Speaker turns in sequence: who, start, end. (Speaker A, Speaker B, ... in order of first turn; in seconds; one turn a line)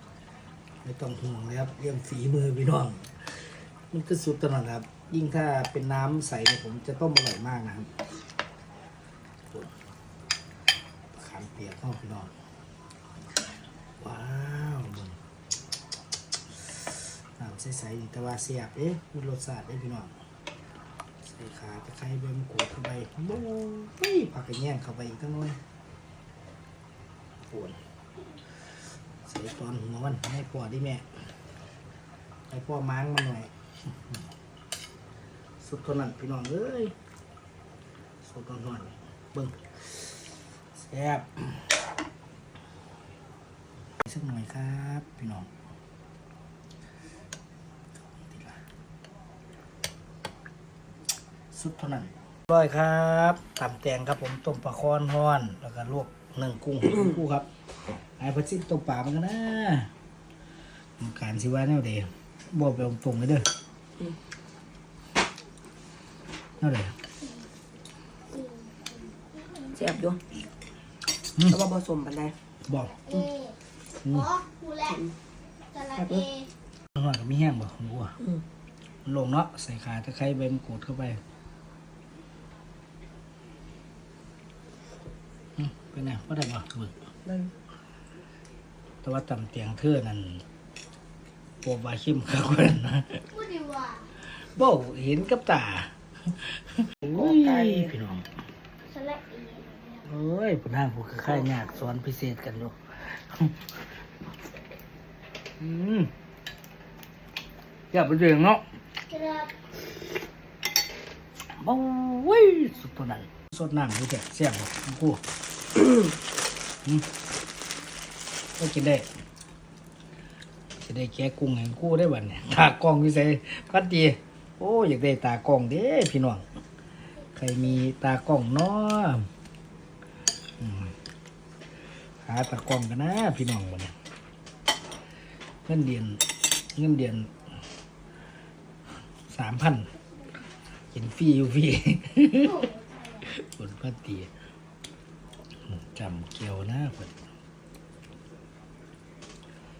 Speaker A: 0.8-7.9
Speaker A: 11.1-12.3
Speaker A: 14.0-15.2
Speaker A: 17.4-20.1
Speaker A: 21.2-25.6
Speaker A: 27.5-27.8
Speaker A: 29.2-31.1
Speaker A: 32.5-33.5
Speaker A: 35.6-36.9
Speaker A: 38.2-40.2
Speaker A: 40.8-41.7
Speaker A: 44.0-45.5
Speaker A: 48.0-48.6
Speaker A: 51.5-57.5
Speaker A: 58.2-59.9
Speaker A: 61.0-63.5
Speaker A: 66.6-66.9
Speaker B: 68.4-68.9
Speaker C: 69.7-70.2
Speaker C: 71.4-72.4
Speaker A: 72.7-73.2
Speaker B: 73.0-73.5
Speaker B: 74.0-75.0
Speaker B: 75.7-76.5
Speaker C: 76.0-76.3
Speaker A: 77.0-78.2
Speaker A: 79.1-81.2
Speaker A: 85.6-87.0
Speaker A: 89.0-90.4
Speaker A: 91.6-93.2
Speaker B: 93.3-94.0
Speaker A: 94.5-98.3
Speaker C: 97.1-97.9
Speaker B: 98.9-100.0
Speaker A: 100.1-103.6
Speaker A: 105.6-106.1
Speaker A: 107.9-108.6
Speaker B: 109.1-109.5
Speaker A: 111.6-115.2
Speaker A: 118.6-119.1
Speaker A: 120.8-126.4
Speaker A: 127.4-129.3
Speaker A: 130.6-130.9
Speaker A: 132.2-133.9
Speaker A: 135.7-136.2
Speaker A: 136.8-137.3
Speaker A: 139.3-139.9
Speaker A: 140.9-144.3
Speaker A: 145.7-147.2